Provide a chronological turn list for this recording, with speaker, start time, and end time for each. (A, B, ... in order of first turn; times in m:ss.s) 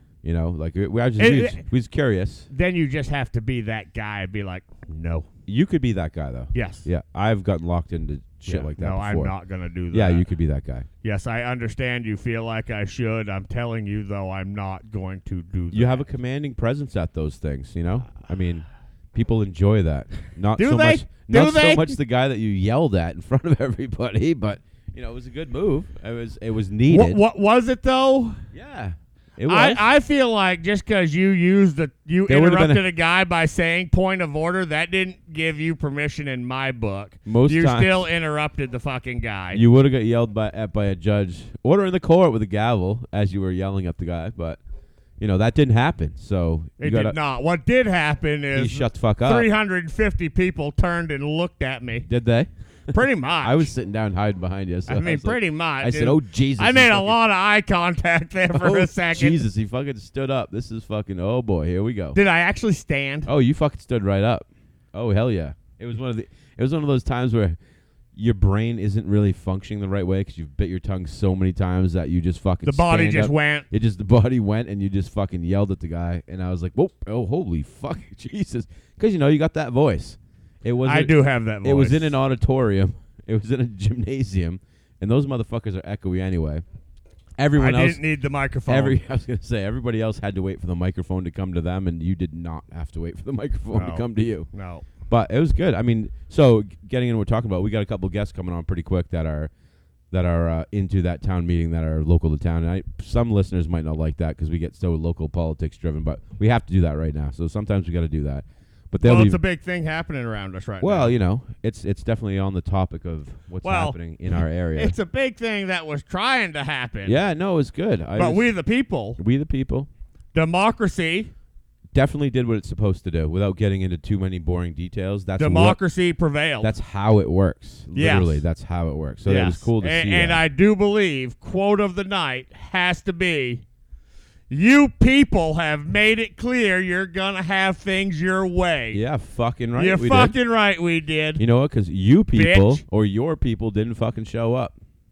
0:00.2-0:02.5 A
0:01.2-0:01.6 B
0:02.5-0:05.3 B
0:05.5-0:09.3 A
0:06.5-0:06.9 B
0:08.4-0:10.3 B
0:09.9-0:10.9 A
0:11.0-0:16.0 B
0:15.7-0:27.2 A
0:20.6-0:22.0 B
0:26.9-0:28.4 B
0:28.5-0:29.8 A
0:29.5-0:39.6 B
0:32.3-0:32.8 A
0:37.2-0:38.0 A
0:39.5-0:44.6 A
0:45.2-0:47.2 A
0:46.8-0:52.1 B
0:48.5-0:49.5 A
0:52.0-0:57.2 A
0:52.9-0:53.7 B
0:54.9-0:59.4 B
0:58.5-1:02.2 A
1:02.1-1:03.3 B
1:03.2-1:07.6 A
1:08.1-1:26.6 A
1:12.6-1:13.6 B
1:20.8-1:22.1 B
1:27.4-1:28.0 A
1:27.6-1:29.0 B
1:28.7-1:34.5 A
1:33.7-1:34.8 B
1:35.1-1:39.5 A
1:40.1-1:49.4 A
1:49.0-1:51.1 B
1:50.8-1:54.9 A
1:53.6-1:57.2 B
1:57.0-1:58.5 A
1:58.2-1:59.2 B
1:59.2-1:59.9 A
2:00.3-2:01.3 B
2:01.9-2:05.8 A
2:05.4-2:06.7 B
2:06.6-2:10.4 A
2:07.9-2:08.4 B
2:09.2-2:13.6 B
2:14.5-2:19.0 B
2:18.9-2:20.4 A
2:19.8-2:21.4 B
2:21.4-2:24.8 A
2:22.3-2:22.8 B